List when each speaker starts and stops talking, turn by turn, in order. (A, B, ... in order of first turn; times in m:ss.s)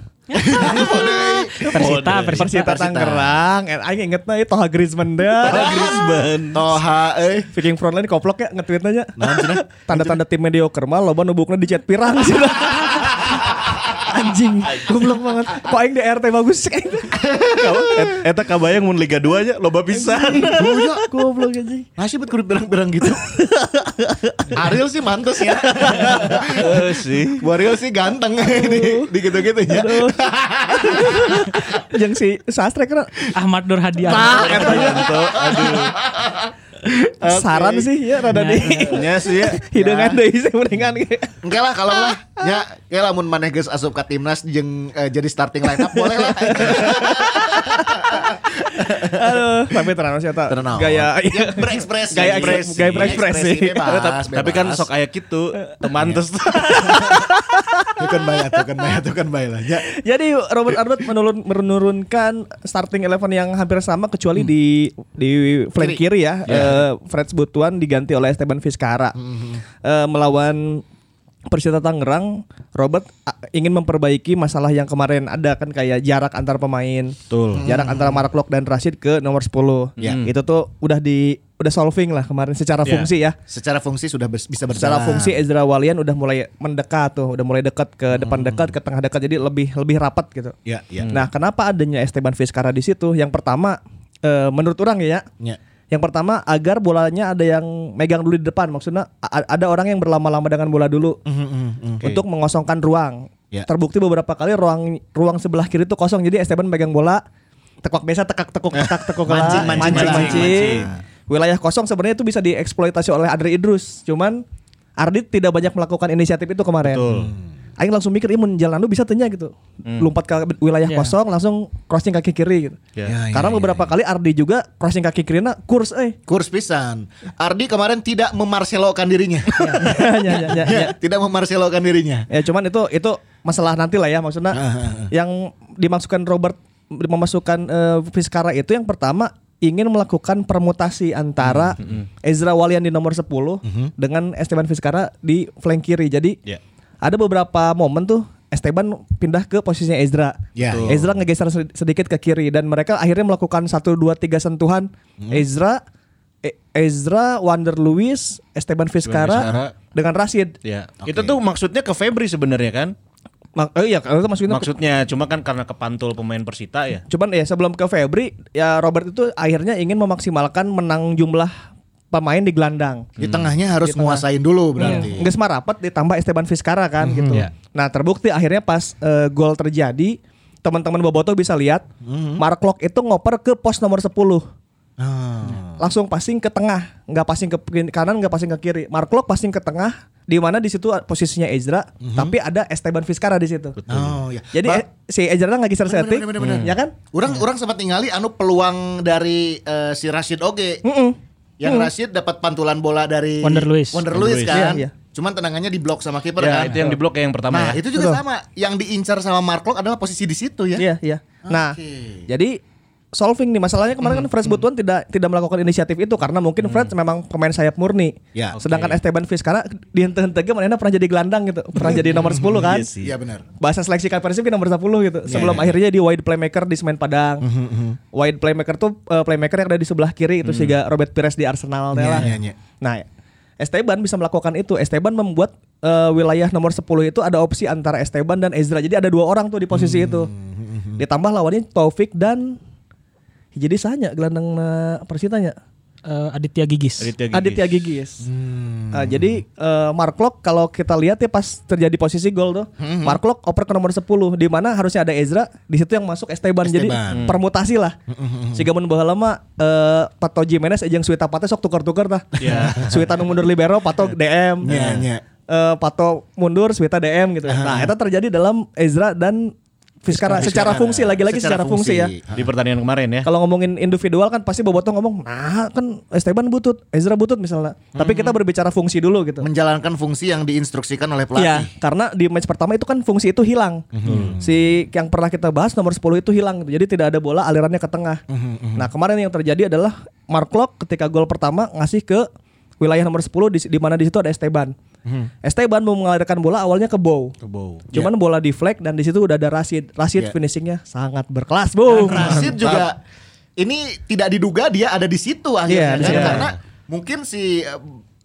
0:00.3-0:01.1 A
0:00.3-0:01.9 B
0:00.5-0:05.8 C
0:01.7-0:02.6 A
0:01.7-0:02.5 D
0:02.5-0:03.3 B
0:05.4-0:07.5 B
0:05.4-0:06.7 D
0:07.5-0:17.3 C
0:09.2-0:10.2 B
0:17.1-0:18.2 B
0:17.5-0:20.8 D
0:19.9-0:21.9 C
0:20.5-0:21.1 B
0:22.0-0:23.3 B
0:23.2-0:24.5 C
0:24.5-0:31.8 B
0:25.7-0:26.7 C
0:25.8-0:27.5 D
0:28.4-0:29.1 C
0:29.6-0:33.2 C
0:33.3-0:35.0 A
0:34.0-0:35.2 C
0:34.1-0:36.0 D
0:35.0-0:36.5 B
0:36.8-0:41.4 C
0:37.2-0:37.9 B
0:38.3-0:39.0 A
0:38.7-0:39.6 D
0:39.7-0:40.2 B
0:41.4-0:49.9 B
0:45.7-0:53.9 C
0:50.5-0:54.9 B
0:52.1-0:53.3 D
0:53.8-0:57.2 D
0:56.5-0:58.0 C
0:58.0-0:59.8 B
0:59.8-1:09.2 C
1:05.8-1:06.7 B
1:06.4-1:06.8 D
1:09.2-1:09.6 B
1:09.8-1:10.8 C
1:11.5-1:23.4 C
1:17.3-1:17.6 D
1:17.5-1:18.2 B
1:20.0-1:20.3 D
1:23.5-1:25.4 B
1:24.7-1:30.6 C
1:28.1-1:28.7 B
1:30.6-1:31.1 B
1:31.1-1:35.3 C
1:35.9-1:41.2 C
1:41.2-1:42.1 B
1:42.0-1:47.2 C
1:47.8-1:54.4 C
1:48.9-1:50.9 D
1:49.2-1:51.0 B
1:55.0-1:57.0 C
1:56.8-1:57.3 D
1:57.1-1:57.4 B
1:57.8-2:02.8 C
2:00.9-2:01.1 A
2:03.0-2:03.9 B
2:03.3-2:06.2 C
2:06.3-2:12.3 B
2:09.8-2:10.9 C
2:12.3-2:26.4 C
2:14.5-2:15.1 B
2:21.4-2:21.8 B
2:21.8-2:22.0 D
2:23.6-2:23.9 B
2:27.0-2:35.8 C
2:30.5-2:31.0 B
2:30.6-2:31.1 D
2:36.4-2:40.6 C
2:39.0-2:39.7 D
2:39.3-2:39.6 B
2:40.6-2:42.9 D
2:41.0-2:41.4 B
2:43.6-2:44.7 C
2:44.5-2:47.0 D
2:47.1-2:51.5 C
2:52.1-2:53.1 C
2:53.2-2:55.3 B
2:53.2-2:53.5 D
2:53.8-2:54.2 C
2:54.8-3:01.8 C
2:54.8-2:55.0 A
2:57.0-2:57.4 B
3:02.0-3:02.4 B
3:02.4-3:04.4 C
3:05.0-3:05.8 B
3:05.8-3:13.8 C
3:12.0-3:12.3 B
3:13.8-3:14.2 D
3:13.9-3:14.8 B
3:14.5-3:16.9 C
3:15.8-3:20.8 B
3:16.4-3:16.7 D
3:20.8-3:21.9 C
3:21.6-3:26.8 B
3:23.4-3:24.1 A
3:24.1-3:24.7 D
3:24.5-3:24.9 C
3:26.4-3:27.8 D
3:27.5-3:30.8 B
3:27.9-3:28.2 C
3:30.8-3:32.6 C
3:31.4-3:32.3 B
3:33.1-3:42.9 C
3:34.0-3:34.6 B
3:36.6-3:36.9 D
3:38.6-3:39.0 D
3:42.1-3:43.4 B
3:42.5-3:43.1 D
3:43.6-3:47.4 C
3:45.3-3:45.7 B
3:45.3-3:45.7 D
3:47.4-3:48.0 B
3:48.1-3:52.3 C
3:50.4-3:50.7 D
3:51.9-3:52.6 B
3:52.8-3:53.0 C
3:53.6-4:00.3 C
3:59.7-4:01.0 B
4:01.0-4:02.6 C
4:03.5-4:05.6 C
4:06.0-4:07.1 A
4:07.0-4:07.7 D
4:07.3-4:08.3 C
4:08.2-4:09.4 B
4:08.9-4:18.0 C
4:12.8-4:13.2 B
4:16.6-4:17.3 B
4:17.1-4:17.4 D
4:18.1-4:18.7 B
4:18.5-4:24.7 C
4:22.4-4:22.8 D
4:22.4-4:23.0 B
4:24.6-4:25.1 D
4:24.6-4:25.2 B
4:25.5-4:32.1 C
4:27.4-4:27.9 B
4:30.2-4:32.5 B
4:30.3-4:31.1 D
4:32.3-4:33.3 D
4:33.2-4:39.5 C
4:38.0-4:38.3 B
4:39.4-4:41.7 B
4:41.4-4:43.8 C
4:43.9-4:44.6 B
4:44.0-4:44.4 D
4:44.4-4:48.2 C
4:48.3-4:48.9 B
4:48.8-4:52.3 C
4:52.8-4:54.7 C
4:55.4-4:57.3 C
4:57.4-4:58.0 D
4:57.9-5:02.5 C
5:01.9-5:03.0 B
5:02.1-5:02.8 D
5:03.6-5:08.0 B
5:05.7-5:06.5 C
5:06.0-5:06.5 D